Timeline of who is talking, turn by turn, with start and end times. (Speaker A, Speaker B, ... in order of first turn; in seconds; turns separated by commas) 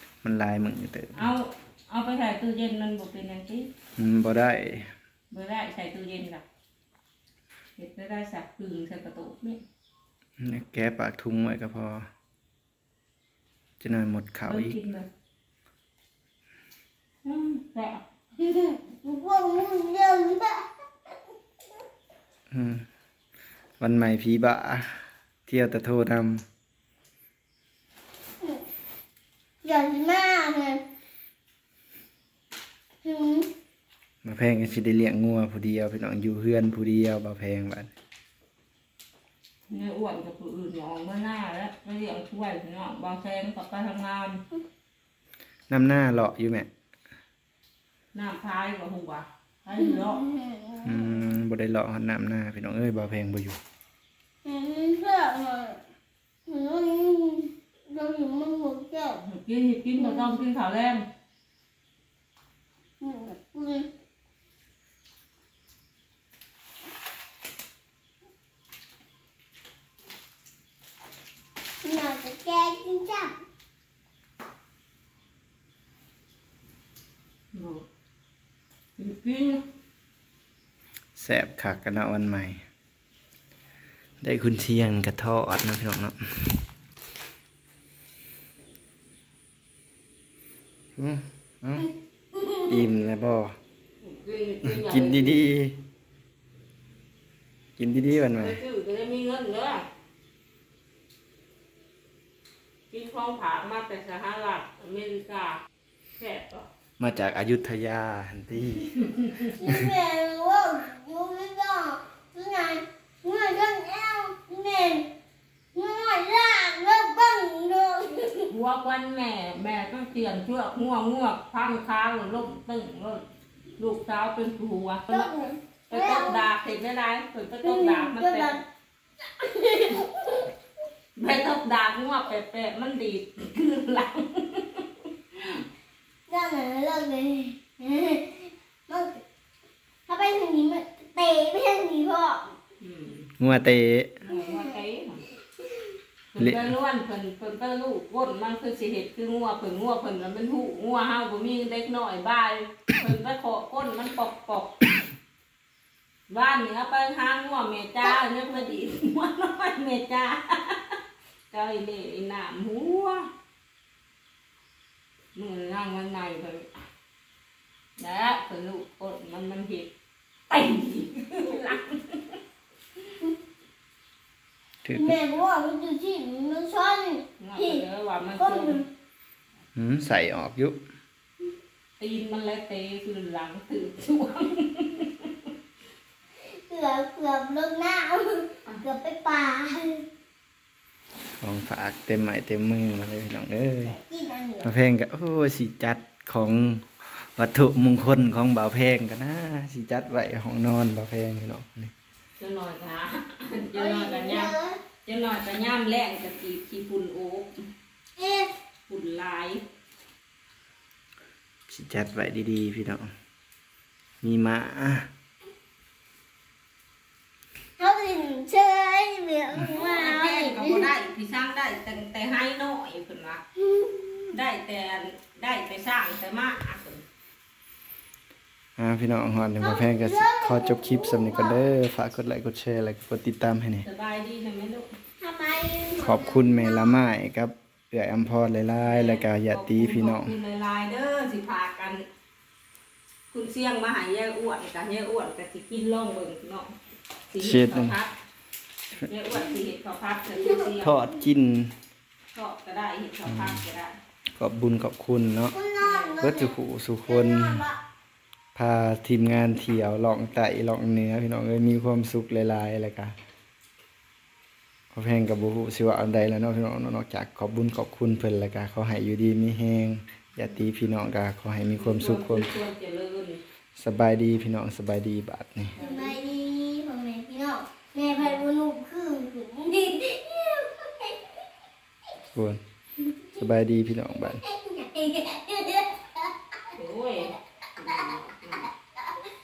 Speaker A: 0.2-1.3, Speaker B: 1.1-3.7, Speaker A: 4.0-4.9, Speaker B: 5.3-6.4, Speaker B: 7.8-9.6, Speaker A: 10.4-12.1, Speaker A: 13.8-14.8, Speaker B: 14.5-15.1, Speaker B: 17.2-18.0, Speaker C: 18.4-20.6, Speaker A: 22.5-22.8, Speaker A: 23.8-26.4, Speaker C: 29.6-30.8, Speaker C: 33.0-33.5, Speaker A: 34.2-37.9, Speaker B: 39.7-44.4, Speaker A: 45.7-46.7, Speaker B: 48.1-50.2, Speaker C: 49.8-51.1, Speaker A: 50.8-53.6, Speaker C: 54.4-55.8, Speaker C: 56.5-59.2, Speaker B: 59.2-61.0, Speaker C: 60.0-60.4, Speaker C: 63.0-63.9, Speaker C: 71.8-73.3, Speaker B: 77.5-77.8, Speaker B: 79.0-79.6, Speaker A: 81.2-82.6, Speaker A: 84.2-86.6, Speaker A: 91.0-91.9, Speaker A: 92.6-93.5, Speaker B: 94.0-95.4, Speaker A: 94.6-95.8, Speaker A: 97.8-98.6, Speaker B: 98.3-99.8, Speaker B: 102.9-105.6, Speaker B: 106.2-106.7, Speaker A: 107.0-109.0, Speaker B: 109.1-109.5, Speaker C: 109.5-115.1, Speaker A: 109.6-109.9, Speaker C: 115.7-118.4, Speaker B: 118.5-123.2, Speaker B: 123.8-125.3, Speaker C: 125.1-126.4, Speaker B: 125.9-128.6, Speaker C: 127.6-128.6, Speaker C: 129.4-130.4, Speaker B: 131.2-135.6, Speaker C: 136.3-139.2, Speaker C: 140.1-142.5, Speaker B: 142.8-143.3, Speaker A: 143.4-144.1, Speaker B: 144.2-145.2, Speaker C: 144.3-144.7, Speaker B: 146.3-154.7, Speaker A: 146.4-146.7, Speaker B: 156.3-161.0, Speaker B: 161.5-163.3, Speaker B: 165.3-166.7, Speaker B: 168.0-169.9, Speaker B: 170.5-172.4, Speaker A: 174.8-175.2, Speaker C: 174.9-177.8, Speaker B: 177.4-178.8, Speaker C: 178.3-178.9, Speaker A: 179.7-180.8, Speaker B: 182.0-185.5, Speaker C: 186.7-190.0, Speaker A: 191.4-193.9, Speaker C: 194.1-194.7, Speaker A: 194.6-201.9, Speaker B: 202.4-204.5, Speaker C: 203.7-204.8, Speaker B: 205.0-207.6, Speaker C: 208.2-208.5, Speaker B: 208.9-209.6, Speaker A: 211.7-213.1, Speaker A: 214.2-215.1, Speaker C: 217.8-220.9, Speaker B: 219.6-223.4, Speaker C: 223.6-224.3, Speaker B: 224.3-227.0, Speaker A: 228.8-233.8, Speaker C: 229.6-231.6, Speaker B: 233.8-234.9, Speaker C: 235.2-237.0, Speaker A: 235.9-240.3, Speaker B: 238.8-242.0, Speaker B: 243.3-246.7, Speaker B: 247.3-248.1, Speaker A: 247.4-248.0, Speaker B: 248.9-251.0, Speaker C: 250.3-250.7, Speaker A: 250.8-251.7, Speaker B: 252.3-253.9, Speaker A: 253.2-253.6, Speaker A: 254.4-255.6, Speaker C: 255.5-256.5, Speaker B: 255.8-256.1, Speaker A: 256.2-257.6, Speaker C: 257.1-257.8, Speaker A: 258.6-263.1, Speaker A: 264.9-272.5, Speaker B: 271.7-273.4, Speaker A: 273.8-275.8, Speaker B: 275.7-276.2, Speaker C: 275.8-281.4, Speaker B: 278.2-278.4, Speaker A: 282.3-282.6, Speaker A: 283.4-284.4, Speaker C: 284.2-286.3, Speaker B: 286.7-288.7